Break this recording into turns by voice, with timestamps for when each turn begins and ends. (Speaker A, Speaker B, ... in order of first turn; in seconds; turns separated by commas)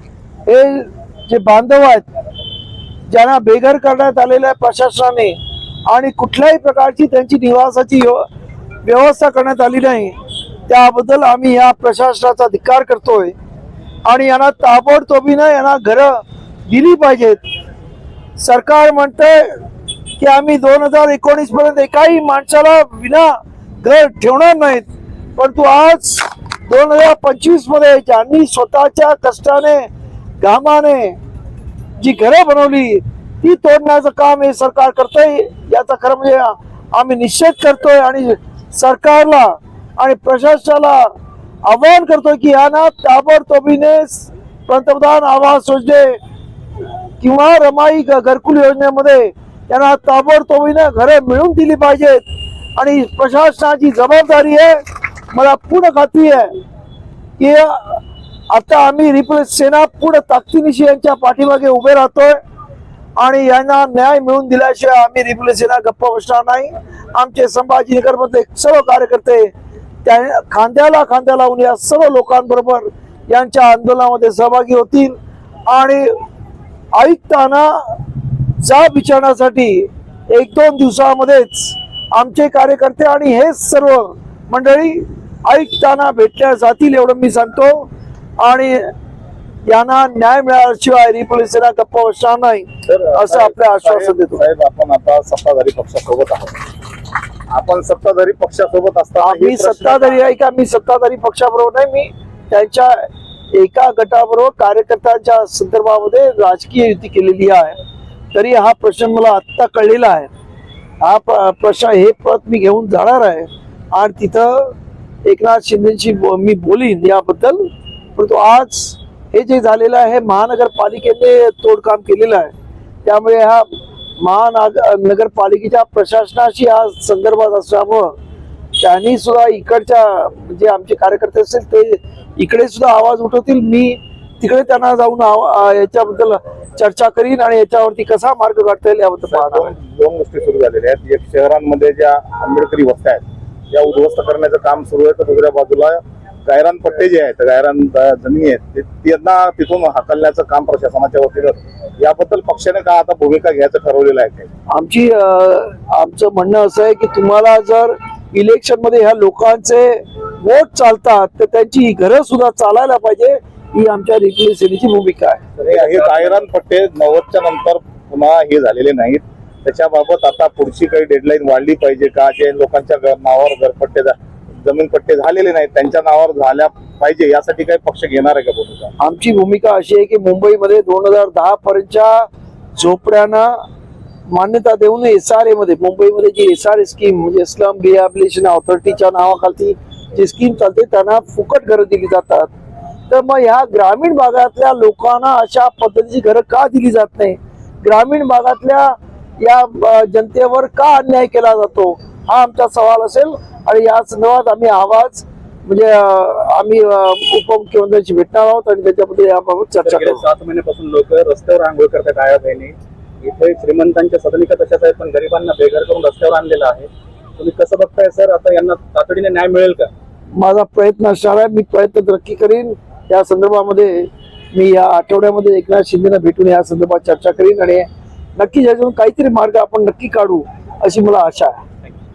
Speaker A: 0.5-2.1, Speaker A: 3.1-8.2, Speaker A: 8.8-10.2, Speaker A: 10.7-13.3, Speaker A: 14.1-17.4, Speaker A: 18.4-19.6, Speaker A: 20.2-31.2, Speaker A: 32.0-41.1, Speaker A: 41.6-46.2, Speaker A: 47.2-52.2, Speaker A: 52.8-54.8, Speaker A: 55.3-56.5, Speaker A: 57.4-62.4, Speaker A: 63.2-69.5, Speaker A: 70.0-75.2, Speaker A: 75.7-76.1, Speaker A: 76.9-78.0, Speaker A: 78.6-87.9, Speaker A: 88.4-88.9, Speaker A: 89.7-94.4, Speaker B: 92.9-96.7, Speaker B: 97.5-100.2, Speaker A: 99.2-107.8, Speaker A: 108.3-110.3, Speaker A: 111.0-114.7, Speaker A: 115.2-122.5, Speaker A: 123.0-123.7, Speaker A: 124.2-128.1, Speaker A: 128.8-139.7, Speaker B: 139.3-154.5, Speaker A: 154.7-165.4, Speaker C: 165.6-166.5, Speaker B: 165.7-178.9, Speaker A: 179.0-183.6, Speaker A: 184.3-192.5, Speaker A: 193.1-210.2, Speaker C: 209.8-219.9, Speaker A: 220.4-231.6